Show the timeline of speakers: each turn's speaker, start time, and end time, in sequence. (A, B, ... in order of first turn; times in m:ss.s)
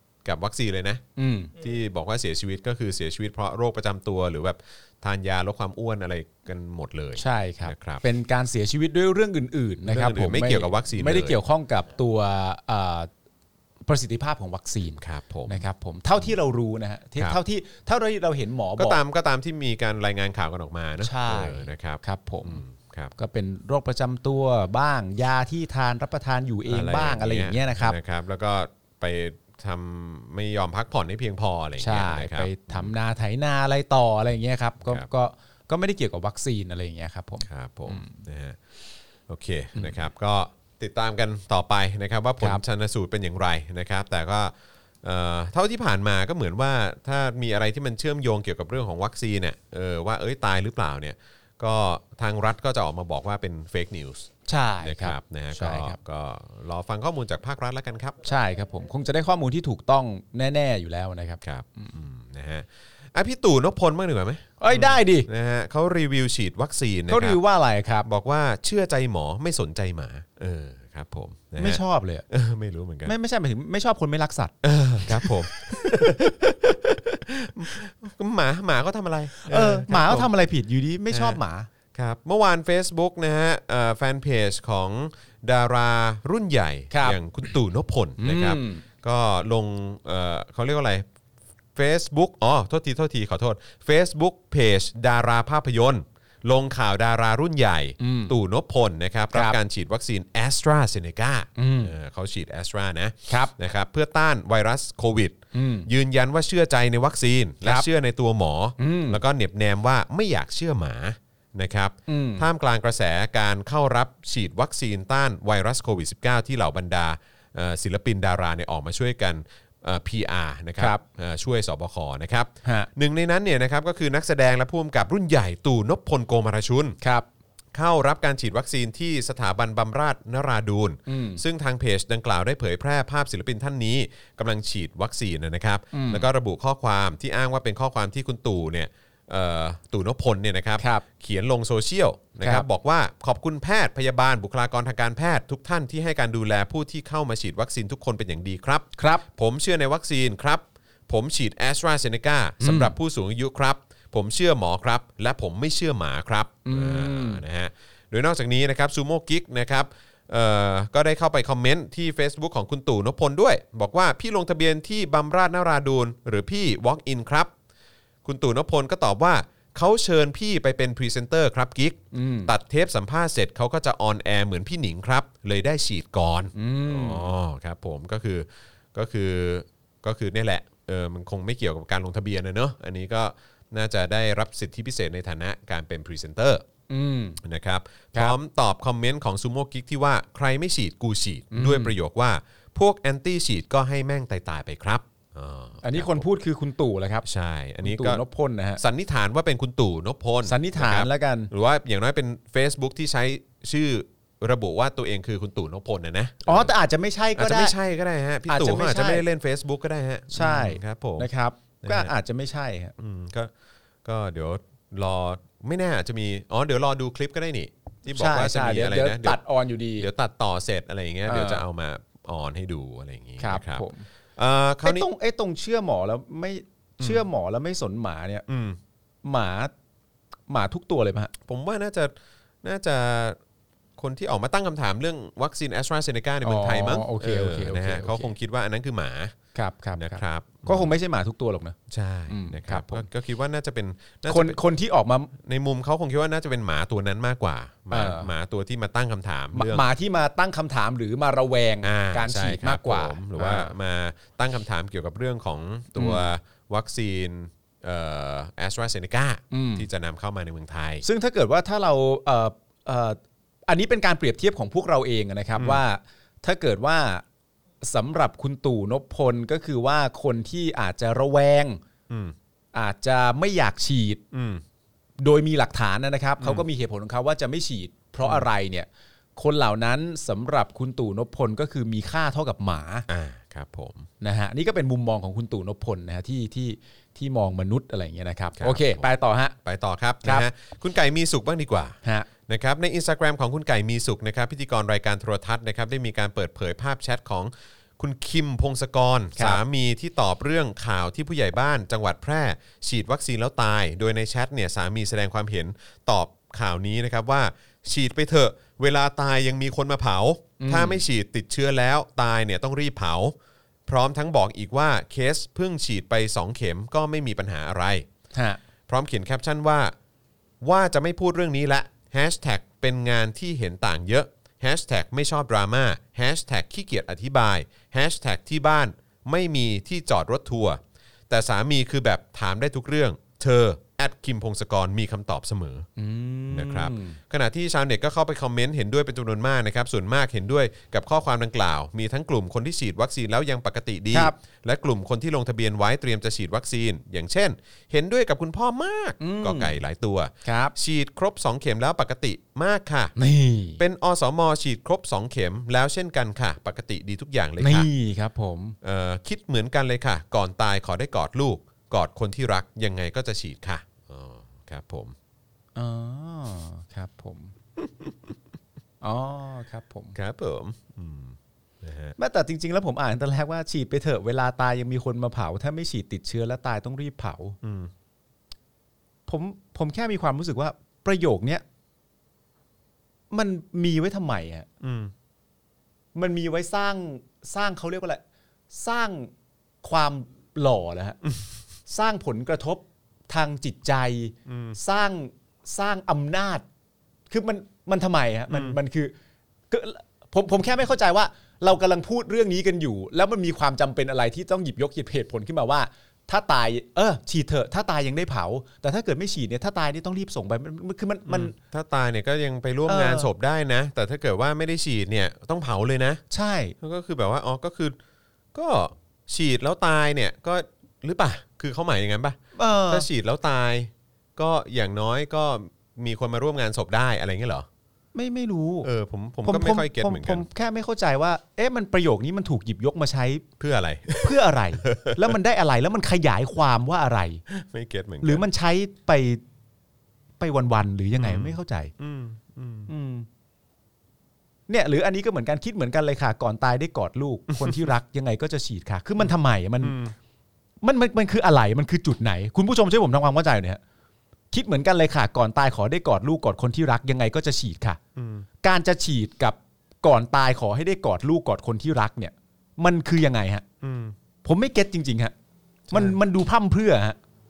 0:00.2-0:01.0 A
0:01.2-0:01.5 B
0:01.6-0:08.0 A
0:07.2-0:13.1 B
0:09.9-0:11.4 A
0:13.9-0:19.0 B
0:15.0-0:15.6 A
0:18.8-0:23.1 A
0:21.0-0:22.6 B
0:23.2-0:28.0 B
0:26.7-0:32.9 A
0:31.8-0:38.2 B
0:37.4-0:38.6 A
0:39.3-0:54.3 A
0:54.5-0:56.0 B
0:54.8-0:58.2 A
0:58.2-1:01.9 B
1:01.4-1:07.4 A
1:04.6-1:05.3 B
1:07.1-1:08.1 B
1:08.0-1:13.1 A
1:11.6-1:12.2 B
1:13.1-1:16.2 B
1:14.6-1:20.3 A
1:19.4-1:21.7 B
1:21.1-1:21.4 A
1:21.9-1:31.0 A
1:26.9-1:27.2 B
1:28.2-1:28.8 B
1:31.8-2:07.0 A
1:38.0-1:38.3 B
1:41.6-1:41.9 B
1:43.3-1:43.5 B
1:45.5-1:45.9 B
1:48.8-1:49.2 B
1:52.1-1:52.5 B
2:07.0-2:07.3 B
2:07.7-2:47.5 A
2:11.1-2:11.4 B
2:15.9-2:16.3 B
2:20.8-2:21.0 B
2:29.0-2:29.2 B
2:32.6-2:32.9 B
2:36.6-2:37.4 B
2:48.2-3:06.6 A
2:52.1-2:52.5 B
2:56.6-2:57.3 B
3:06.9-3:07.4 B
3:07.4-3:16.3 A
3:11.5-3:11.9 B
3:15.8-3:17.2 B
3:17.2-3:18.2 A
3:17.8-3:18.8 B
3:18.8-3:26.7 A
3:20.4-3:21.5 B
3:26.5-3:27.8 B
3:27.4-3:31.3 A
3:28.5-3:29.2 B
3:30.3-3:32.9 B
3:31.8-3:32.1 A
3:33.0-3:33.5 A
3:34.0-3:39.4 A
3:38.1-3:40.1 B
3:40.0-3:45.1 A
3:41.3-3:41.6 B
3:43.4-3:44.1 B
3:44.8-3:48.4 B
3:48.5-3:48.8 A
3:49.2-3:49.7 B
3:50.5-3:51.3 B
3:51.5-3:53.4 A
3:54.0-3:59.4 A
3:56.4-3:58.3 B
3:59.6-4:01.8 B
4:00.0-4:00.9 A
4:01.9-4:04.6 A
4:02.3-4:03.1 B
4:04.3-4:05.3 B
4:05.4-4:09.9 A
4:07.9-4:08.3 B
4:09.6-4:13.7 B
4:11.8-4:21.0 A
4:16.0-4:16.2 B
4:19.5-4:19.9 B
4:21.0-4:27.2 B
4:25.6-4:25.8 A
4:27.8-4:31.8 B
4:32.1-4:32.4 A
4:32.7-4:34.2 B
4:34.3-4:34.6 A
4:35.2-4:43.1 B
4:36.4-4:36.7 A
4:43.1-4:44.1 A
4:44.2-4:49.6 B
4:48.6-4:49.1 A
4:49.6-5:13.4 A
5:10.6-5:11.0 B
5:13.9-5:18.1 A
5:18.3-5:18.6 B
5:18.9-5:19.9 A
5:20.6-5:35.9 A
5:36.0-5:37.2 B
5:36.5-5:53.1 A
5:49.2-5:49.8 B
5:50.4-5:50.7 B
5:53.2-5:53.8 B
5:53.8-5:57.9 A
5:57.6-5:58.8 B
5:58.8-6:05.2 A
6:05.8-6:07.5 B
6:07.8-6:08.3 A
6:09.0-6:10.2 B
6:10.2-6:12.2 A
6:12.2-6:17.6 B
6:17.6-6:17.9 A
6:19.3-6:21.6 B
6:23.3-6:24.7 B
6:24.8-6:25.1 A
6:26.2-6:28.2 B
6:28.7-6:29.3 B
6:29.8-6:31.2 B
6:31.9-6:36.6 B
6:34.5-6:34.8 A
6:37.3-6:39.1 B
6:38.5-6:38.8 A
6:39.7-6:51.6 B
6:51.3-6:56.2 A
6:52.9-6:53.3 B
6:56.3-6:56.8 B
6:56.8-6:58.0 A
6:58.5-7:02.4 A
7:02.6-7:03.1 B
7:02.9-7:07.7 A
7:08.1-7:08.9 B
7:08.8-7:10.5 A
7:09.4-7:13.4 B
7:13.6-7:15.4 A
7:14.2-7:17.4 B
7:17.5-7:18.4 A
7:18.2-7:19.4 B
7:20.4-7:21.9 B
7:21.2-7:22.9 A
7:22.9-7:23.3 B
7:24.7-7:30.0 B
7:27.5-7:27.9 A
7:29.8-7:30.2 A
7:30.8-7:33.8 B
7:34.5-7:38.0 B
7:38.2-7:38.5 A
7:38.6-7:43.6 B
7:43.8-7:44.2 A
7:44.4-7:45.3 B
7:45.9-7:46.2 A
7:45.9-7:47.2 B